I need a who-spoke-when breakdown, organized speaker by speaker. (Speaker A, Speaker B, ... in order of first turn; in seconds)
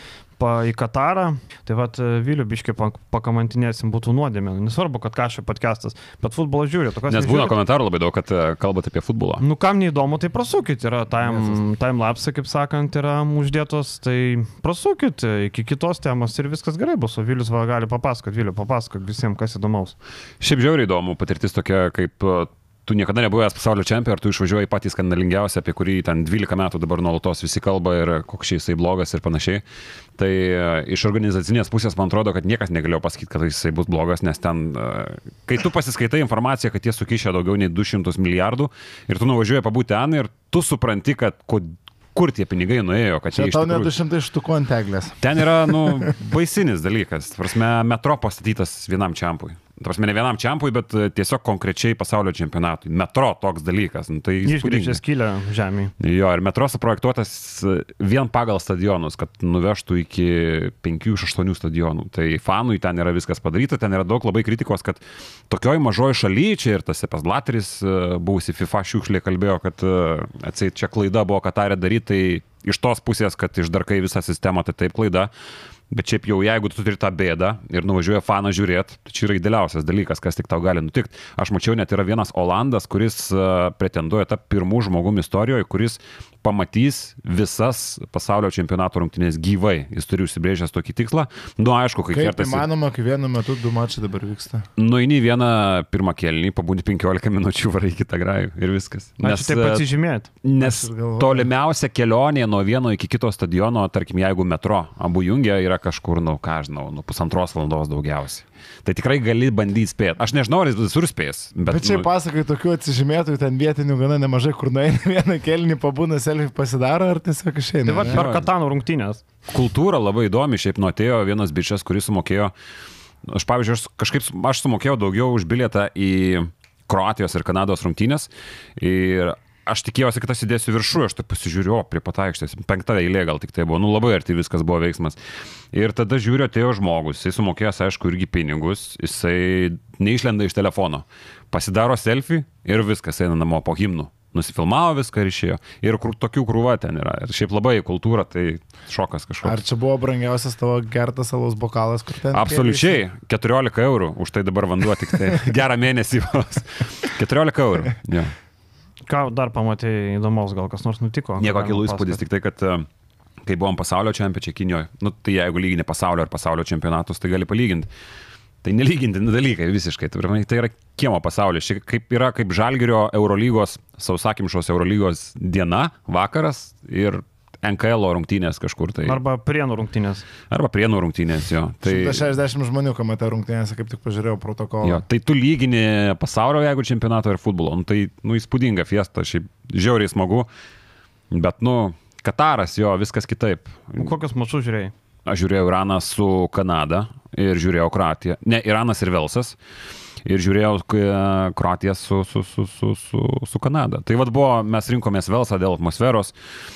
Speaker A: 0.4-7.5, 9.4-19.9, 54.4-55.9, 99.2-100.3, 117.8-119.2, 159.1-162.2, 179.0-180.2, 194.0-194.9
Speaker B: 7.1-9.4, 20.4-29.6, 30.2-43.9, 45.2-55.0, 56.0-75.3, 75.9-92.7, 94.8-99.8, 100.4-112.1, 118.0-118.5, 119.5-122.5, 123.2-135.2, 135.7-149.6, 152.3-158.3, 161.4-162.8, 163.4-167.9, 168.6-179.2, 180.5-182.2, 184.8-190.5, 191.3-194.1, 195.2-199.6, 200.2-206.3
Speaker C: 11.2-11.6, 43.3-46.2, 92.1-94.7, 100.6-101.5, 111.7-118.2, 149.4-153.0, 181.8-185.0